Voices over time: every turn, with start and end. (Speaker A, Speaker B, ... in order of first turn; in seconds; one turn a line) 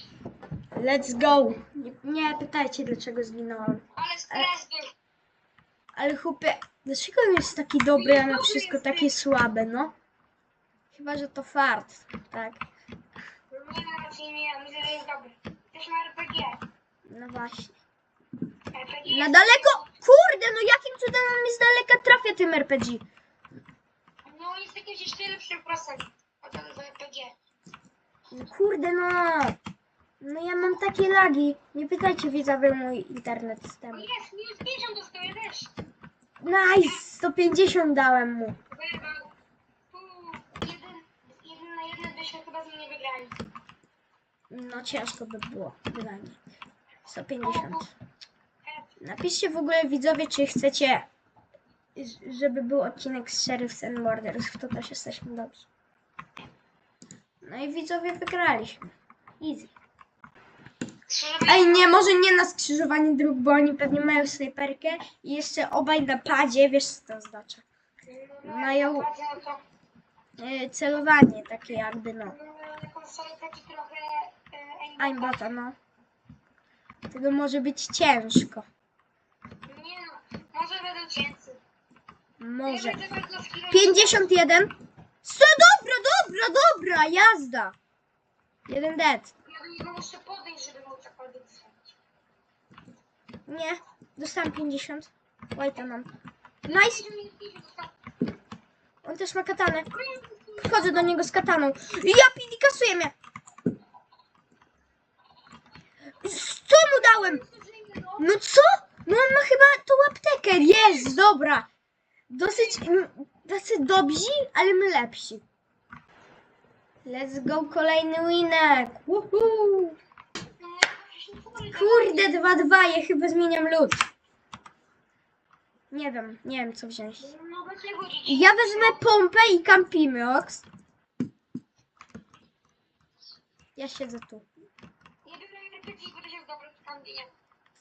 Speaker A: 0.7-4.5
Speaker B: 4.0-4.9
Speaker A: 5.9-9.9
Speaker B: 8.0-9.1
Speaker A: 10.9-12.6
Speaker B: 13.5-16.6
Speaker A: 17.1-17.8
Speaker B: 18.7-19.9
Speaker A: 19.1-23.0
Speaker B: 24.2-27.4
Speaker A: 28.3-29.6
Speaker A: 30.2-34.1
Speaker B: 33.9-35.7
Speaker A: 36.4-38.6
Speaker B: 38.7-39.3
Speaker B: 39.9-43.4
Speaker A: 44.5-46.4
Speaker A: 47.1-47.9
Speaker B: 47.4-47.9
Speaker B: 48.6-49.0
Speaker A: 49.0-51.1
Speaker A: 52.0-55.7
Speaker A: 57.4-59.7
Speaker B: 61.1-62.1
Speaker A: 61.5-67.7
Speaker B: 68.1-69.6
Speaker A: 68.4-69.1
Speaker A: 70.4-72.4
Speaker B: 72.3-75.5
Speaker A: 75.0-75.8
Speaker A: 77.1-78.7
Speaker B: 79.7-81.6
Speaker A: 82.4-83.0
Speaker B: 82.6-84.3
Speaker A: 83.7-87.8
Speaker A: 88.7-89.3
Speaker B: 89.5-92.0
Speaker A: 93.5-96.1
Speaker B: 96.7-98.0
Speaker A: 96.7-97.1
Speaker A: 99.0-99.9
Speaker B: 99.9-101.1
Speaker A: 100.6-103.1
Speaker A: 106.2-107.4
Speaker B: 106.8-108.3
Speaker A: 108.2-111.7
Speaker B: 110.6-111.1
Speaker A: 112.3-115.4
Speaker B: 112.5-112.8
Speaker A: 117.0-120.0
Speaker B: 120.6-122.3
Speaker A: 121.7-124.0
Speaker A: 125.9-127.3
Speaker B: 127.2-129.1
Speaker A: 128.3-130.7
Speaker A: 133.8-134.5
Speaker B: 135.2-137.3